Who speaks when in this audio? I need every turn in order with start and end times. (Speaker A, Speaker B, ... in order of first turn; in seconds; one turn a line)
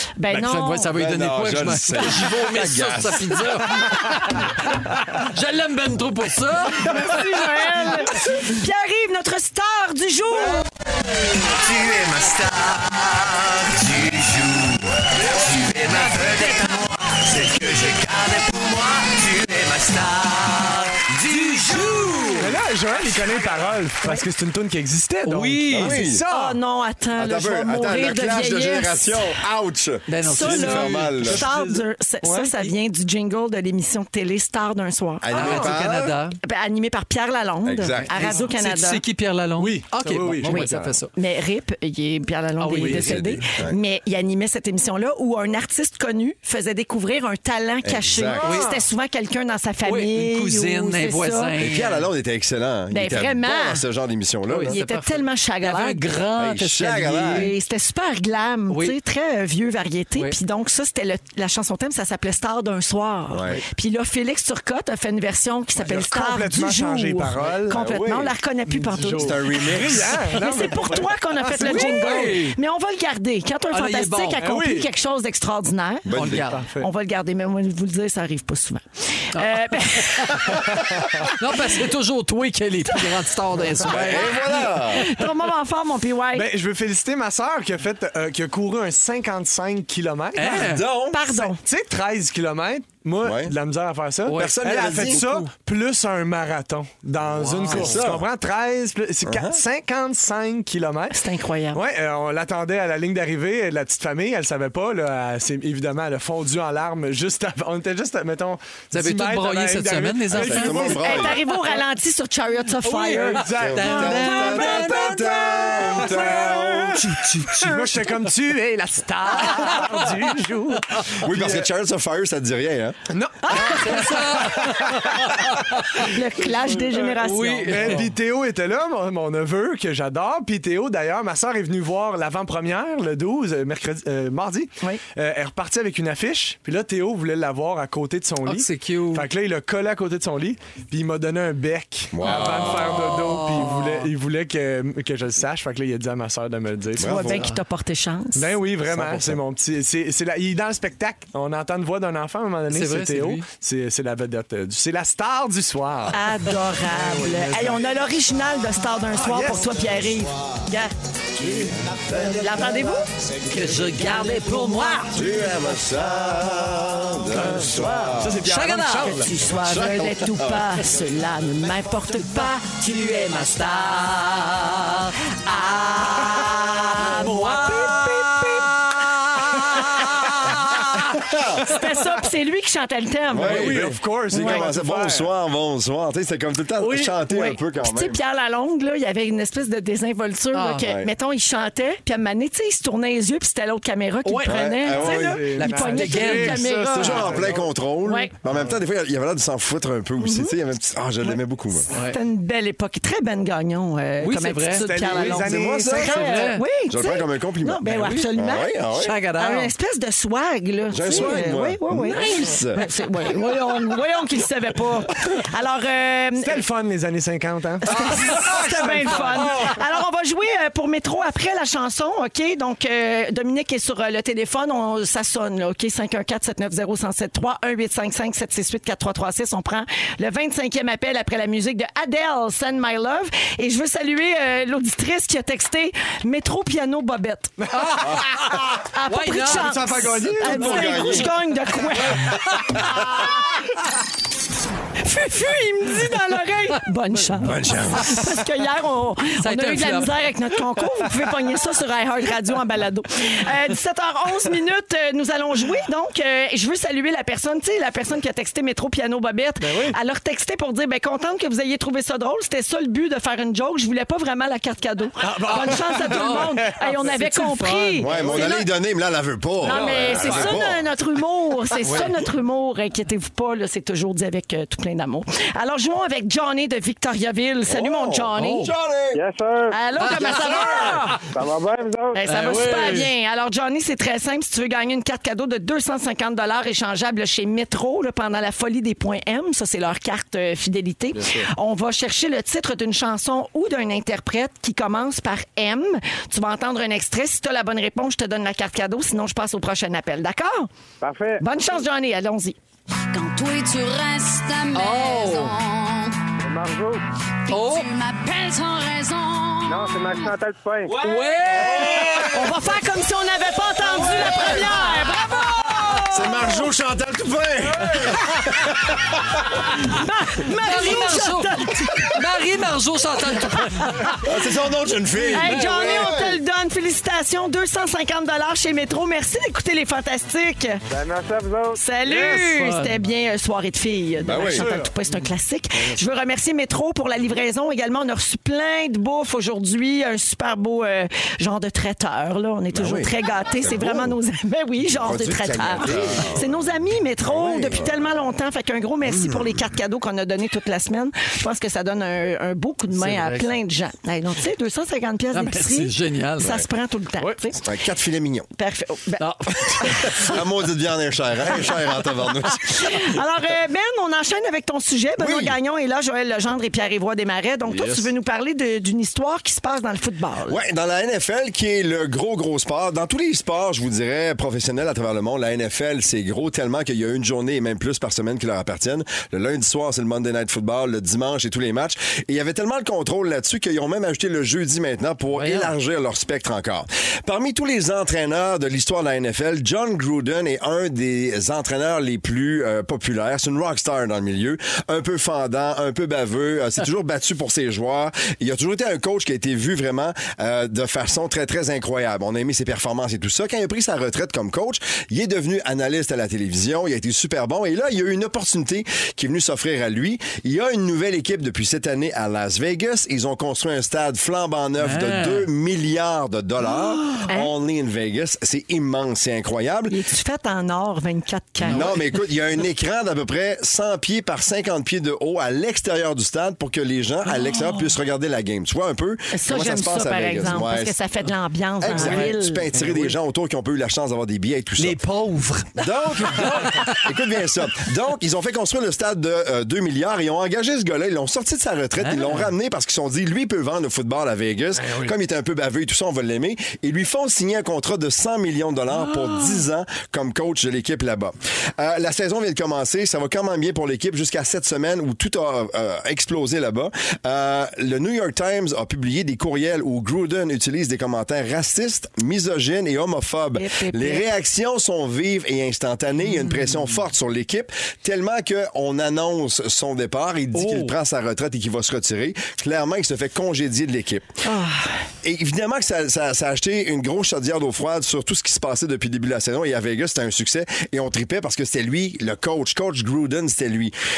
Speaker A: 0.2-0.9
Speaker B: 0.3-7.2
Speaker C: 0.9-3.8
Speaker A: 6.8-10.7
Speaker D: 11.4-22.3
Speaker B: 21.2-22.6
Speaker E: 22.4-26.6
Speaker B: 25.2-26.0
Speaker C: 25.7-26.2
Speaker A: 26.3-29.3
Speaker C: 27.2-31.5
Speaker B: 30.1-31.8
Speaker A: 30.2-35.8
Speaker E: 32.2-32.7
Speaker C: 35.2-36.2
Speaker B: 35.3-36.4
Speaker A: 36.4-39.0
Speaker C: 37.6-38.4
Speaker B: 38.0-41.1
Speaker E: 39.6-40.9
Speaker A: 40.5-51.5
Speaker B: 42.6-43.2
Speaker E: 42.8-43.1
Speaker C: 42.9-43.8
Speaker C: 47.8-48.6
Speaker E: 48.4-48.7
Speaker B: 48.4-48.8
Speaker B: 49.9-52.1
Speaker C: 51.6-54.8
Speaker A: 52.9-53.8
Speaker B: 54.5-57.5
Speaker A: 54.7-56.1
Speaker C: 56.4-57.5
Speaker A: 57.3-76.1
Speaker B: 58.7-59.0
Speaker C: 63.3-63.6
Speaker E: 65.8-67.8
Speaker C: 67.7-68.3
Speaker E: 68.7-72.4
Speaker C: 69.2-70.4
Speaker B: 71.5-72.6
Speaker B: 73.7-74.4
Speaker E: 74.4-74.9
Speaker C: 76.0-76.5
Speaker B: 76.2-76.7
Speaker E: 76.2-76.9
Speaker A: 76.8-80.7
Speaker B: 79.3-80.6
Speaker B: 81.4-84.8
Speaker C: 83.8-85.1
Speaker A: 84.2-86.5
Speaker E: 86.3-90.8
Speaker B: 90.4-90.8
Speaker C: 90.5-91.2
Speaker A: 91.1-91.6
Speaker E: 91.4-101.2
Speaker C: 93.2-93.5
Speaker B: 94.3-95.5
Speaker C: 94.4-95.2
Speaker B: 97.3-98.0
Speaker C: 97.7-98.3
Speaker C: 99.2-99.6
Speaker A: 101.1-101.8
Speaker E: 101.7-111.8
Speaker B: 108.9-111.0
Speaker C: 110.3-111.4
Speaker A: 110.9-114.6
Speaker B: 112.8-116.3
Speaker E: 113.1-114.5
Speaker C: 113.6-117.1
Speaker E: 116.0-121.7
Speaker A: 116.3-116.7
Speaker B: 117.0-118.1
Speaker B: 119.5-120.0
Speaker C: 121.2-123.0
Speaker E: 123.1-125.4
Speaker A: 123.5-124.6
Speaker B: 123.5-125.9
Speaker A: 126.0-128.0
Speaker B: 127.2-128.1
Speaker E: 127.7-147.4
Speaker B: 138.4-139.3
Speaker C: 142.1-143.4
Speaker B: 143.1-144.1
Speaker C: 147.0-147.5
Speaker A: 147.0-148.5
Speaker E: 148.3-157.9
Speaker C: 148.9-149.4
Speaker B: 152.7-153.5
Speaker A: 156.1-160.9
Speaker E: 159.1-160.0
Speaker C: 161.4-162.9
Speaker A: 162.2-163.1
Speaker B: 163.5-165.1
Speaker A: 163.8-165.2
Speaker C: 165.1-168.4
Speaker E: 167.3-169.3
Speaker A: 167.7-168.2
Speaker B: 168.4-169.3
Speaker A: 169.0-174.3
Speaker C: 169.5-170.8
Speaker B: 174.5-174.9
Speaker A: 175.4-178.7
Speaker B: 177.0-178.6
Speaker A: 179.6-181.1
Speaker C: 181.1-181.7
Speaker A: 181.6-184.7
Speaker C: 183.3-188.2
Speaker E: 183.3-185.3
Speaker A: 186.9-197.4
Speaker B: 190.5-190.9
Speaker C: 190.8-191.1
Speaker B: 194.2-194.7
Speaker C: 194.4-195.4
Speaker E: 194.8-197.7
Speaker B: 195.6-196.7
Speaker C: 196.9-201.9
Speaker A: 198.0-198.3
Speaker A: 200.2-200.6
Speaker B: 201.9-202.2
Speaker A: 201.9-208.7
Speaker B: 204.2-206.6
Speaker E: 204.7-206.1
Speaker C: 205.3-209.2
Speaker B: 207.9-208.3
Speaker B: 208.9-209.7
Speaker A: 209.3-216.6
Speaker C: 210.9-212.9
Speaker E: 216.4-219.8
Speaker A: 217.8-238.1
Speaker E: 237.6-238.2
Speaker B: 237.7-238.4
Speaker A: 238.7-242.4
Speaker B: 239.1-240.2
Speaker E: 239.4-241.0
Speaker C: 240.4-241.3
Speaker B: 242.0-242.8
Speaker A: 245.0-268.7
Speaker C: 247.4-248.4
Speaker B: 249.4-250.2
Speaker E: 259.6-260.0
Speaker E: 265.2-266.5
Speaker B: 266.0-268.2
Speaker C: 268.0-270.9
Speaker A: 269.6-278.7
Speaker E: 269.7-270.5
Speaker C: 277.7-279.2
Speaker B: 278.4-278.7
Speaker F: 279.1-279.8
Speaker A: 279.7-281.2
Speaker B: 280.0-281.1
Speaker C: 280.4-280.9
Speaker F: 281.3-282.2
Speaker A: 282.1-300.7
Speaker B: 282.3-283.1
Speaker F: 301.0-301.4
Speaker A: 301.4-302.6
Speaker G: 303.1-306.2
Speaker B: 304.7-305.6
Speaker F: 306.4-307.0
Speaker G: 307.5-310.3
Speaker B: 307.5-307.9
Speaker F: 309.7-311.0
Speaker B: 311.0-312.3
Speaker C: 311.5-312.5
Speaker A: 312.3-316.7
Speaker C: 314.1-314.8
Speaker B: 314.2-315.0
Speaker C: 316.0-318.9
Speaker A: 319.8-322.1
Speaker B: 320.5-324.2
Speaker A: 323.8-324.2
Speaker C: 324.0-326.4
Speaker B: 325.2-326.1
Speaker A: 325.3-330.8
Speaker F: 330.9-331.8
Speaker A: 331.8-357.6
Speaker E: 332.1-332.3
Speaker B: 332.1-333.0
Speaker C: 334.2-334.7
Speaker E: 334.4-334.9
Speaker C: 342.7-344.2
Speaker C: 344.9-346.6
Speaker C: 347.2-347.9
Speaker C: 349.1-349.6
Speaker B: 352.9-353.5
Speaker B: 355.3-356.6
Speaker C: 357.6-358.5
Speaker A: 358.6-360.2
Speaker B: 359.2-360.2
Speaker C: 359.9-363.1
Speaker A: 362.5-370.6
Speaker C: 365.2-365.6
Speaker C: 367.7-368.0
Speaker C: 370.5-420.0
Speaker B: 385.4-385.7
Speaker B: 414.8-415.5
Speaker A: 417.2-417.5
Speaker A: 419.9-422.0
Speaker C: 421.6-430.9
Speaker A: 429.3-432.6
Speaker C: 431.8-435.0
Speaker B: 431.9-433.1
Speaker B: 434.8-435.7
Speaker C: 435.8-474.3
Speaker B: 436.7-437.0
Speaker B: 442.0-442.5
Speaker B: 449.1-449.6
Speaker A: 463.6-464.3
Speaker B: 470.5-470.9
Speaker A: 474.4-474.9
Speaker C: 475.2-483.9